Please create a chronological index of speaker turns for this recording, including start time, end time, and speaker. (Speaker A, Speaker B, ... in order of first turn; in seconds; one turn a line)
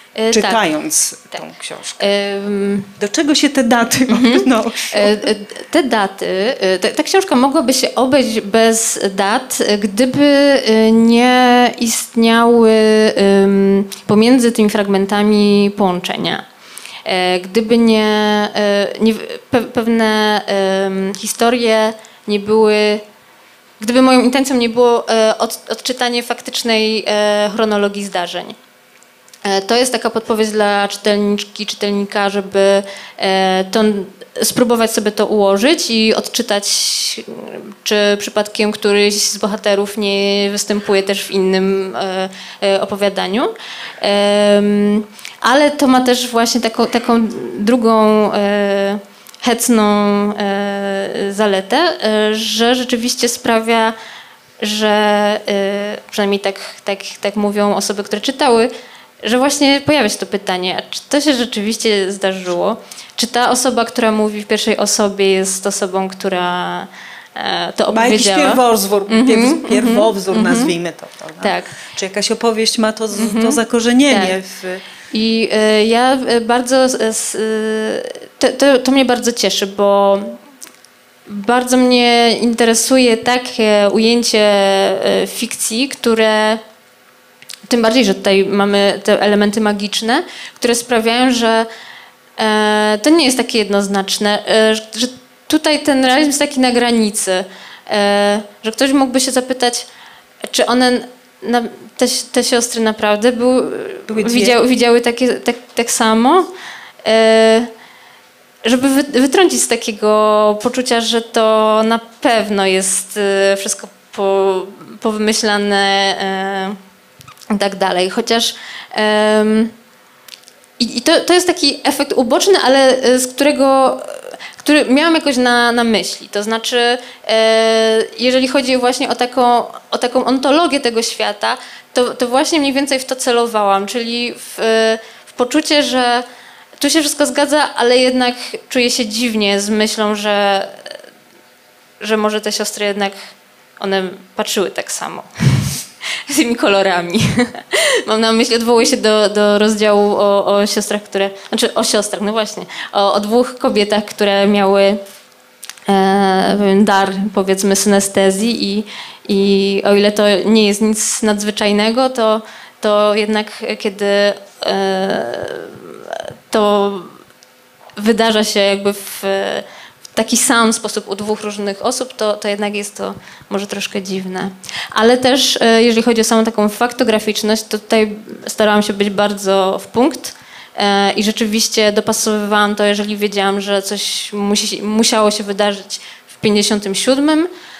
Speaker A: 0.1-0.6
Speaker B: 0.3-2.1
Speaker A: 2.0-2.9
Speaker B: 3.0-5.3
Speaker A: 4.1-16.4
Speaker A: 17.0-23.0
Speaker A: 23.8-28.6
Speaker A: 29.4-53.9
Speaker A: 54.6-58.7
Speaker A: 59.2-70.7
Speaker B: 67.9-74.8
Speaker A: 71.4-71.7
Speaker A: 73.1-74.4
Speaker A: 75.1-80.4
Speaker A: 81.3-86.6
Speaker A: 87.7-91.7
Speaker A: 92.4-99.9
Speaker A: 100.4-106.5
Speaker B: 104.1-104.5
Speaker A: 107.0-107.7
Speaker A: 108.6-116.8
Speaker A: 117.5-119.7
Speaker A: 120.8-136.2
Speaker A: 136.8-140.9
Speaker A: 142.0-143.2
Speaker A: 143.8-155.0
Speaker A: 155.9-167.2
Speaker A: 168.0-187.5